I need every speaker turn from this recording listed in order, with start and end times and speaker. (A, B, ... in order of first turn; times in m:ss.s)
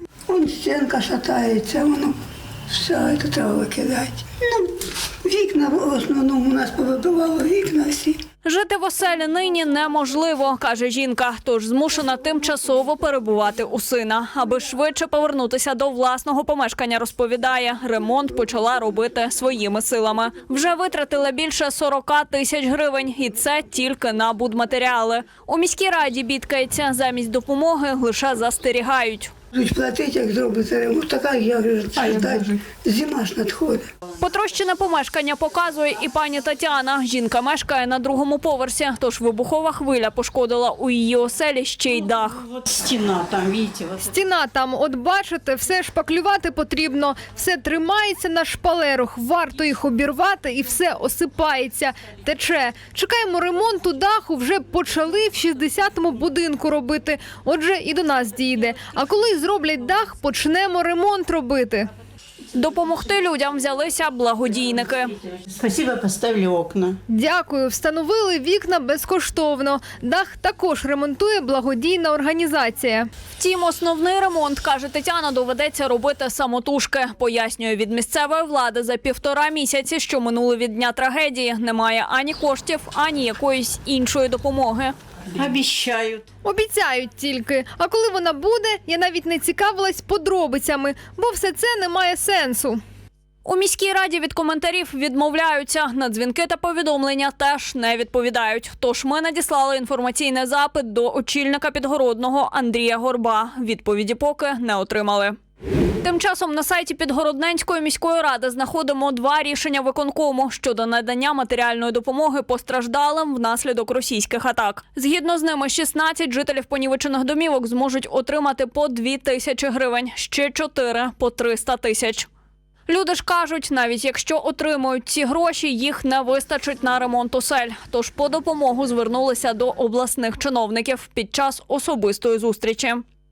0:00.3-0:02.2 A
0:02.7-0:04.7 A
0:05.2-0:08.2 A
0:08.4-0:29.3 B
0:29.5-0:33.9 A
0:34.2-0:42.4 B
0:42.6-0:44.0 C
0:44.0-1:01.9 D
1:02.5-1:05.1 B
1:05.5-1:07.0 C
1:07.1-1:13.1 D
1:13.4-1:24.9 B
1:25.3-1:26.2 C
1:26.4-1:32.8 D
1:33.4-1:45.4 B
1:46.0-2:02.3 B
2:02.9-2:13.0 B